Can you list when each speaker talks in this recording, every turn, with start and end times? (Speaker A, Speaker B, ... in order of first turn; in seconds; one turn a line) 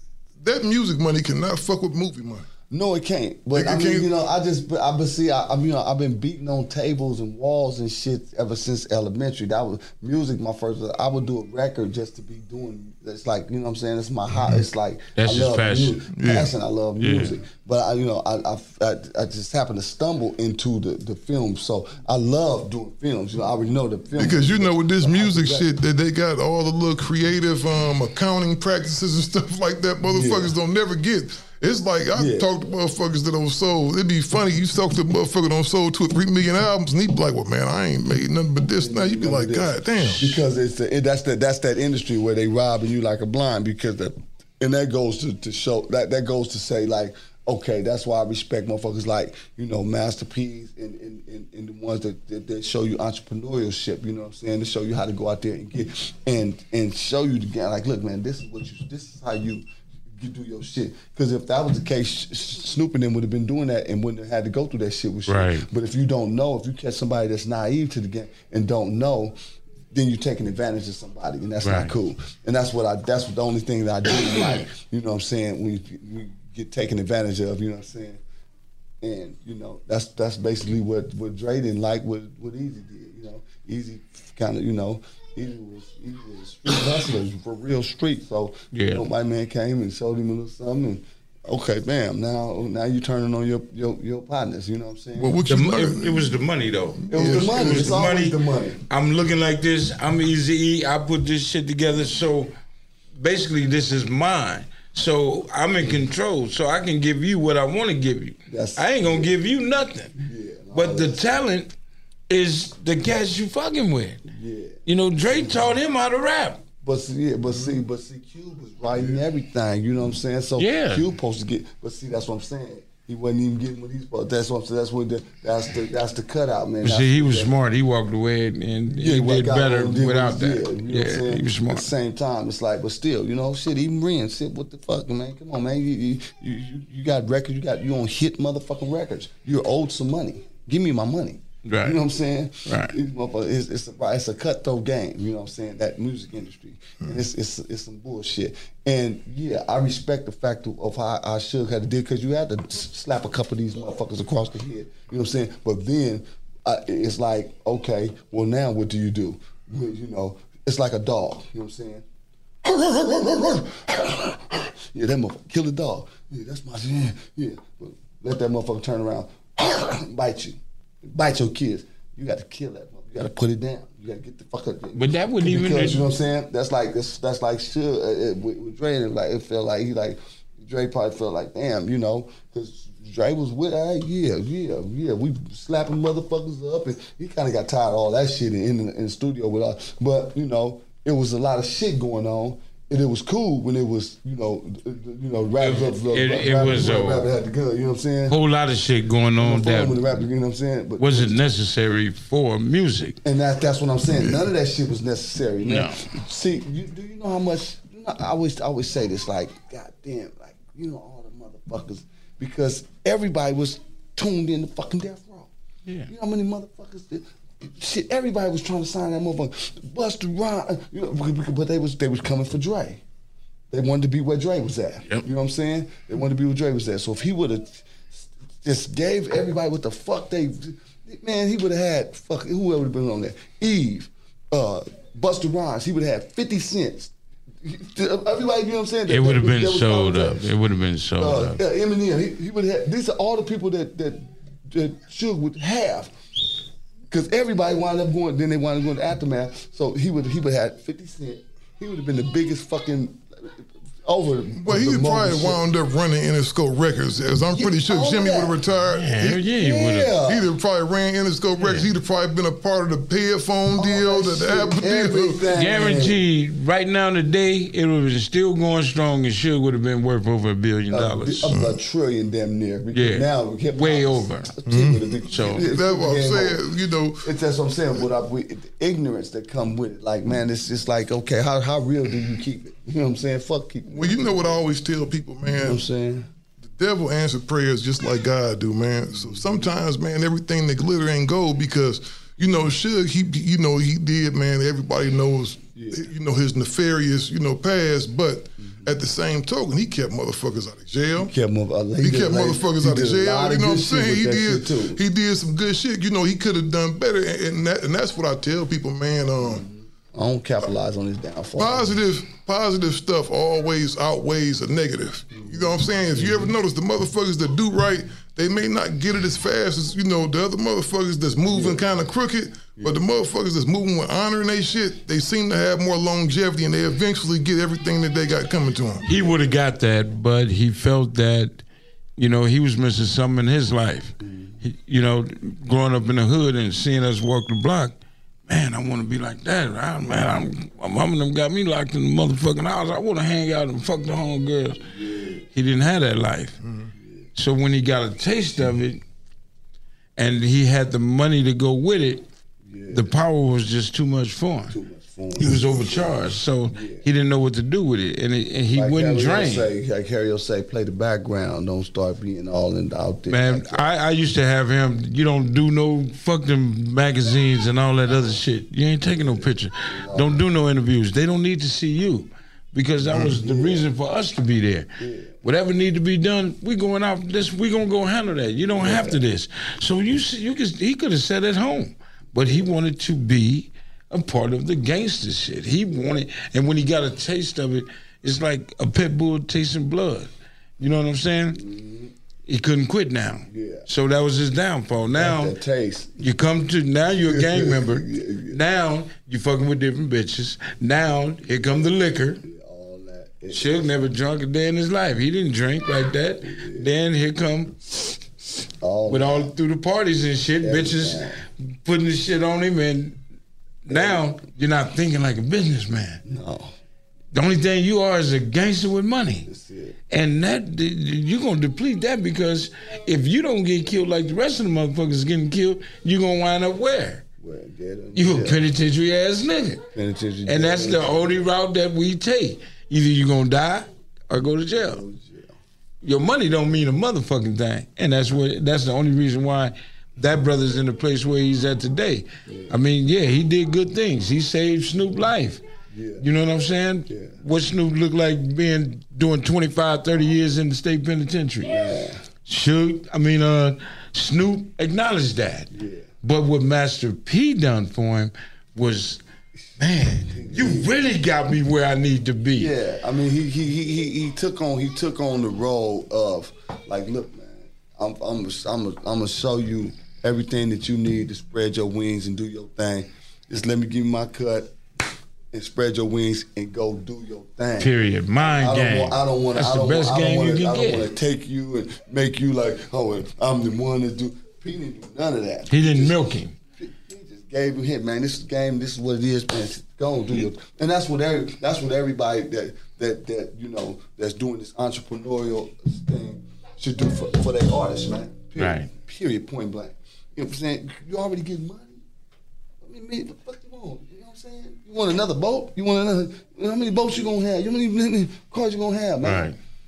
Speaker A: 0.4-2.5
Speaker B: 2.7-25.7
Speaker A: 3.5-4.1
Speaker C: 15.2-16.0
Speaker A: 16.1-16.5
Speaker C: 17.0-17.4
Speaker A: 24.1-40.4
Speaker B: 30.0-30.5
Speaker B: 32.1-32.5
Speaker B: 38.8-69.3
Speaker C: 65.2-65.7
Speaker B: 69.9-78.2
Speaker C: 71.6-71.9
Speaker B: 79.0-95.4
Speaker C: 88.7-89.0
Speaker A: 95.2-96.3
Speaker C: 95.4-102.5
Speaker A: 97.0-97.9
Speaker B: 97.1-98.8
Speaker C: 103.2-110.1
Speaker B: 108.5-109.4
Speaker B: 110.2-111.2
Speaker C: 110.7-111.7
Speaker C: 112.3-114.2
Speaker B: 114.3-115.6
Speaker C: 114.9-116.7
Speaker B: 116.8-127.5
Speaker C: 120.6-121.1
Speaker C: 126.8-131.9
Speaker B: 128.9-162.0
Speaker C: 141.6-142.0
Speaker C: 142.7-142.9
Speaker B: 162.6-198.4
Speaker C: 174.9-176.1
Speaker C: 195.6-197.3
Speaker C: 198.3-200.0
Speaker B: 199.4-201.4
Speaker C: 201.0-203.2
Speaker B: 203.2-215.5
Speaker C: 205.6-206.1
Speaker B: 216.1-223.0
Speaker B: 223.7-240.5
Speaker C: 239.1-241.6
Speaker B: 241.2-246.1
Speaker B: 247.1-255.6
Speaker A: 254.6-259.4
Speaker B: 257.5-258.6
Speaker C: 258.9-260.2
Speaker B: 259.5-260.5
Speaker A: 260.2-265.4
Speaker C: 261.6-261.9
Speaker B: 263.7-266.2
Speaker C: 265.5-271.5
Speaker B: 270.9-276.6
Speaker C: 272.9-274.6
Speaker A: 274.7-277.3
Speaker C: 275.3-275.7
Speaker B: 277.2-284.6
Speaker A: 283.9-285.8
Speaker B: 285.4-286.3
Speaker A: 286.6-301.3
Speaker B: 289.1-289.7
Speaker B: 295.7-296.1
Speaker B: 298.6-298.9
Speaker B: 301.1-305.0
Speaker A: 302.0-309.6
Speaker B: 309.4-312.0
Speaker A: 311.6-329.1
Speaker B: 315.3-316.5
Speaker B: 321.5-321.8
Speaker B: 322.8-323.0
Speaker C: 329.1-331.6
Speaker C: 332.2-337.9
Speaker B: 334.2-334.6
Speaker C: 338.5-344.8
Speaker B: 344.9-345.5
Speaker C: 345.5-346.6
Speaker A: 346.6-346.9
Speaker B: 346.9-347.3
Speaker C: 347.3-349.0
Speaker C: 350.2-352.2
Speaker B: 352.6-353.2
Speaker C: 352.9-354.8
Speaker B: 354.7-357.1
Speaker C: 355.4-359.7
Speaker B: 358.7-363.8
Speaker C: 363.3-374.9
Speaker B: 369.2-370.4
Speaker B: 373.1-373.9
Speaker B: 375.0-375.4
Speaker C: 375.4-391.6
Speaker B: 378.8-379.2
Speaker B: 391.5-392.1
Speaker C: 392.5-395.6
Speaker B: 393.4-393.9
Speaker B: 395.1-396.4
Speaker C: 396.2-402.4
Speaker B: 397.1-398.6
Speaker B: 402.4-404.0
Speaker C: 403.5-407.8
Speaker B: 406.4-406.9
Speaker B: 408.4-409.5
Speaker C: 409.1-411.3
Speaker B: 410.6-411.4
Speaker C: 411.8-413.2
Speaker C: 413.8-416.2
Speaker B: 413.9-414.3
Speaker B: 416.2-416.7
Speaker C: 417.3-419.5
Speaker B: 419.4-420.0
Speaker C: 420.1-427.2
Speaker B: 427.4-428.6
Speaker C: 428.1-429.8
Speaker B: 429.9-431.4
Speaker C: 430.4-435.0
Speaker B: 434.7-435.6
Speaker C: 436.0-445.6
Speaker B: 442.4-442.8
Speaker B: 445.9-446.2
Speaker C: 446.2-451.8
Speaker B: 447.1-447.4
Speaker B: 451.6-452.3
Speaker C: 452.4-455.7
Speaker B: 455.7-456.1
Speaker C: 456.2-459.2
Speaker C: 459.8-462.7
Speaker B: 460.2-461.0
Speaker B: 462.5-474.8
Speaker B: 475.5-486.2
Speaker C: 477.8-481.1
Speaker C: 485.7-486.6
Speaker B: 486.8-502.0
Speaker C: 498.6-498.9
Speaker B: 502.8-509.5
Speaker C: 509.2-509.6